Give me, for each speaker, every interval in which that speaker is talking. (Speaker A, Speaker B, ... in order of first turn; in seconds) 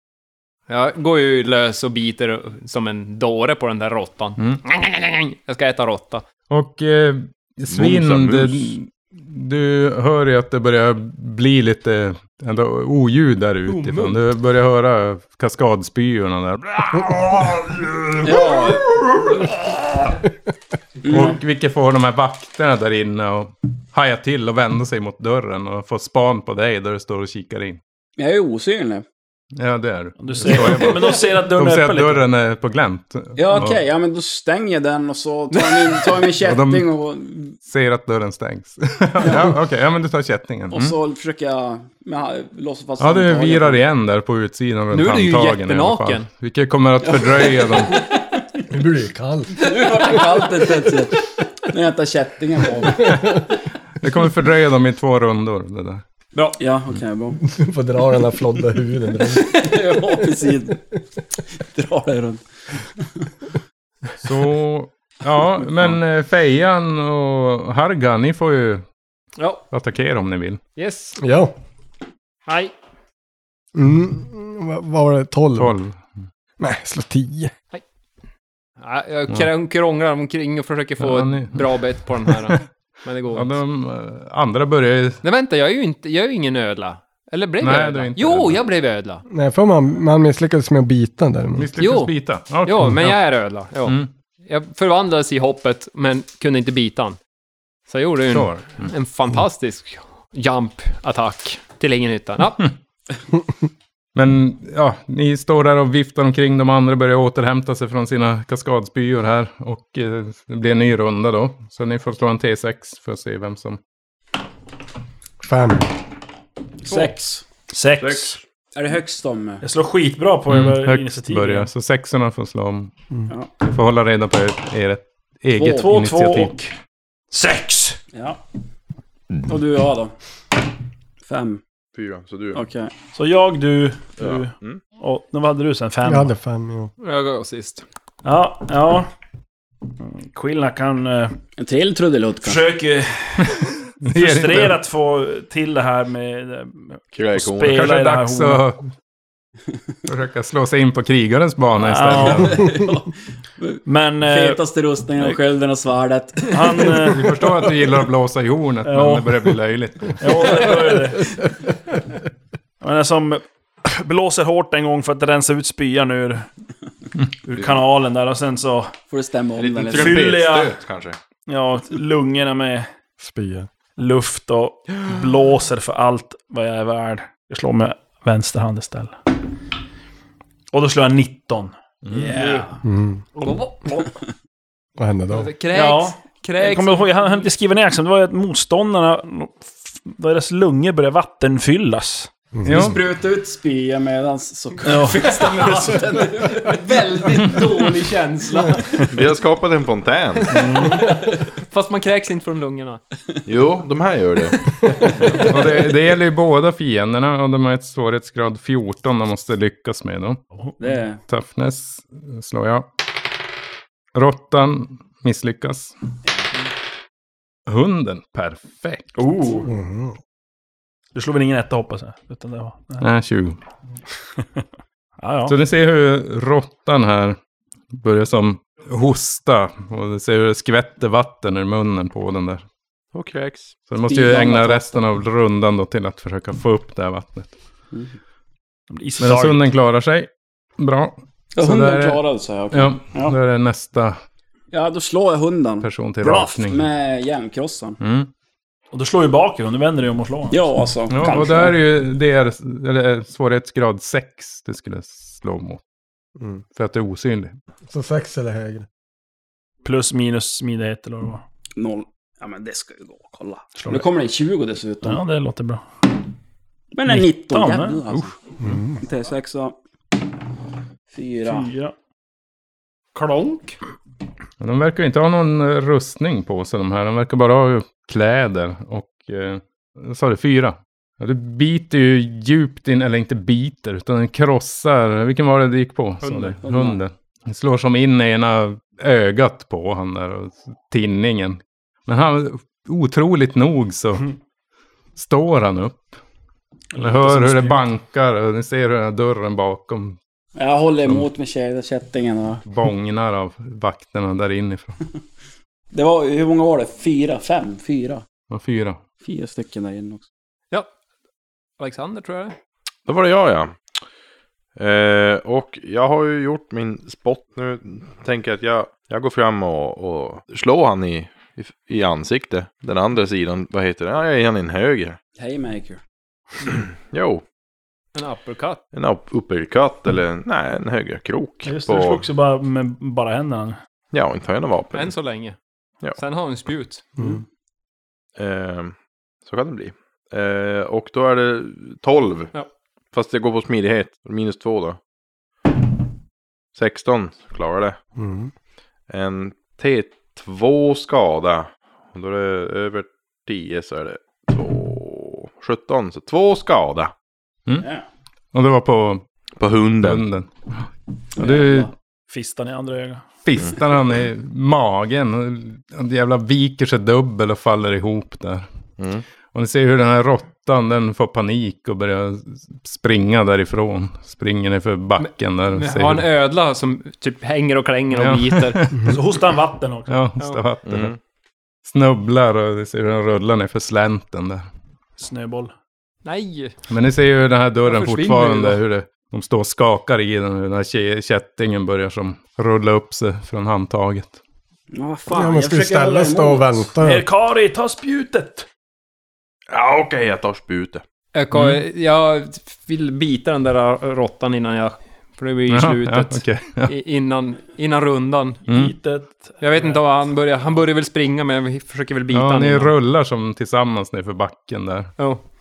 Speaker A: 0.7-6.2, 13.7-14.2, 35.5-36.0, 44.9-46.3, 69.4-69.6, 70.8-71.2, 72.5-72.7, 78.8-83.6, 85.2-89.2, 91.8-97.2, 97.9-102.7, 137.0-137.8, 182.3-182.6, 183.4-184.1, 185.3-187.4, 195.3-199.2, 200.5-203.0, 273.1-273.7, 286.2-286.6, 311.8-312.6, 328.1-328.8, 334.9-335.6, 336.1-337.0, 375.2-378.8, 380.4-380.6, 386.2-386.8, 387.9-388.8, 401.3-408.6, 409.6-412.9
Speaker B: 6.5-19.8, 21.0-27.8, 29.6-33.8, 36.4-36.9, 37.6-41.0, 43.0-48.0, 53.1-56.0, 64.2-68.8, 69.7-70.6, 75.6-76.0, 81.0-81.7, 82.3-82.6, 83.3-85.2, 87.6-88.6, 91.6-93.2, 98.3-98.9, 104.2-113.8, 120.5-122.9, 123.6-126.7, 143.4-144.8, 147.7-148.9, 150.1-152.8, 157.0-160.7, 192.7-193.0, 205.3-210.4, 211.3-212.9, 214.2-215.9, 217.7-219.1, 223.0-223.6, 225.5-227.4, 227.9-232.7, 233.9-237.5, 239.2-242.2, 242.7-244.2, 245.8-246.9, 248.0-248.3, 251.1-255.8, 256.8-257.6, 274.6-294.3, 295.2-296.1, 297.0-300.2, 302.7-305.0, 308.5-309.0, 358.5-359.2, 360.0-360.5, 361.4-361.9, 363.4-368.7, 369.5-376.3, 378.1-379.2, 380.1-381.1, 381.9-384.7, 386.9-394.4, 401.5-401.8, 405.7-406.9, 408.7-409.0, 412.3-415.1
Speaker C: 7.7-8.7, 118.0-118.4, 131.9-132.6, 134.2-134.8, 147.1-147.8, 167.5-167.8, 169.6-171.2, 199.1-200.6, 203.5-204.6, 233.1-233.7, 313.1-313.8, 314.8-325.2, 327.0-327.4, 328.9-332.2, 334.1-335.1, 338.4-342.5, 343.1-345.0, 346.7-348.0, 349.1-357.1, 359.6-360.2, 369.0-369.2, 380.9-381.2, 399.7-401.0
Speaker D: 18.2-18.9, 21.0-21.4, 28.2-29.1, 33.4-37.6, 39.2-39.5, 40.7-43.8, 47.0-48.4, 49.6-53.2, 56.3-57.4, 59.4-60.8, 61.5-63.2, 116.8-117.5, 118.8-119.6, 125.6-125.8, 128.1-128.4, 129.5-130.1, 131.2-131.6, 132.5-132.9, 141.6-142.6, 152.5-153.1, 153.6-156.9, 169.1-170.2, 182.2-182.7, 192.7-197.9, 210.8-211.2, 234.1-235.0, 237.9-238.2, 241.6-243.3, 244.7-248.0, 250.5-251.8, 261.8-265.2, 266.9-268.4, 268.9-269.8, 271.1-271.7, 286.6-287.0, 300.6-302.6, 305.9-308.2, 309.2-310.2, 325.4-326.0, 357.8-358.1, 361.4-361.9, 394.9-396.9
Speaker E: 30.2-32.3, 117.7-118.4, 119.6-121.7, 125.6-126.6, 127.3-128.0, 133.2-136.3, 138.2-139.1, 140.0-141.4, 142.4-143.5, 144.0-148.7, 151.8-152.8, 153.8-154.6, 156.5-157.4, 158.8-159.6, 160.2-161.4, 162.8-166.5, 167.4-168.9, 169.9-170.8, 171.5-172.9, 174.0-179.3, 180.7-182.7, 185.7-192.3, 194.8-195.5, 200.7-201.0, 221.2-223.1, 224.4-224.6, 225.2-225.6, 238.9-239.7, 248.9-250.6, 259.8-261.4, 263.8-264.1, 265.0-265.9, 267.1-268.0, 271.4-271.9, 296.9-297.8, 331.6-333.8, 362.3-363.2, 379.0-380.3, 385.2-385.7, 397.0-398.7, 408.7-410.1
Speaker F: 48.7-49.6, 57.5-60.2, 71.2-71.5, 73.8-75.8, 76.6-77.5, 89.3-91.7, 115.4-115.9, 136.0-136.9, 173.2-173.7, 182.8-183.2, 185.0-185.5, 192.6-192.9, 219.7-220.2, 257.9-258.9, 268.6-269.0, 348.2-348.5, 395.3-397.2